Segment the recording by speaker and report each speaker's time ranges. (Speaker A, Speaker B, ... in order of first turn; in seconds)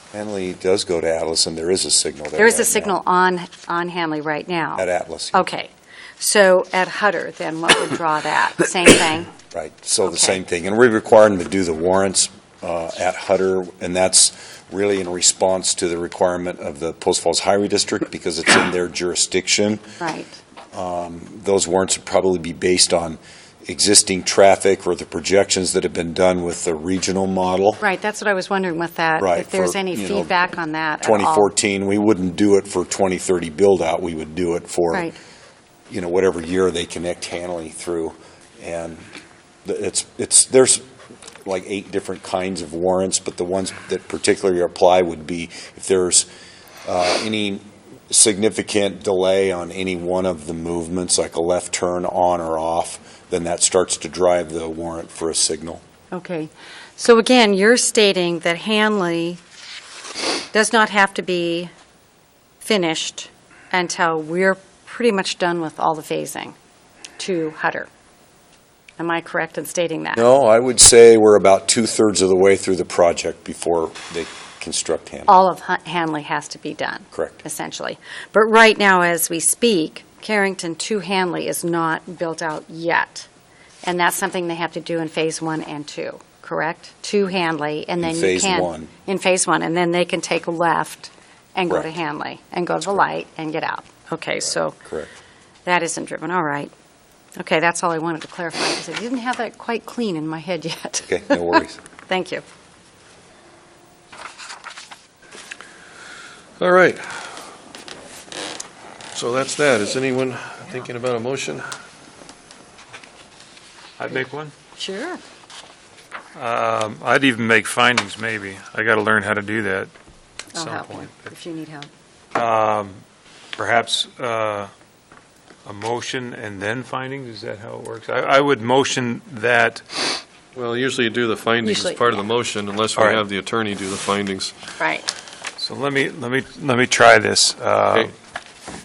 Speaker A: 0.1-3.0, 4.8-5.5, 9.5-19.8, 20.7-27.8, 29.2-30.3, 31.0-35.1, 35.9-39.1, 39.6-40.8, 41.4-46.3, 46.8-55.8, 70.1-75.3, 77.1-77.4, 88.0-88.9, 94.8-95.1, 101.0-101.8
Speaker B: 2.4-9.3, 10.1-10.4, 20.0-20.4, 27.8-31.5, 34.9-35.1, 56.1-59.4, 60.5-61.7, 62.6-66.5, 67.2-67.9, 69.0-70.2, 75.3-83.3, 83.8-94.8, 95.6-96.7, 97.3-102.4, 114.8-115.2, 120.5-121.9, 131.6-132.0, 134.8-135.1
Speaker C: 106.6-107.2, 109.1-111.6, 130.5-134.5
Speaker D: 114.0-114.5, 116.3-119.9, 120.5-121.2, 122.3-123.0, 123.5-124.7, 125.6-129.8, 132.9-133.2, 135.6-138.1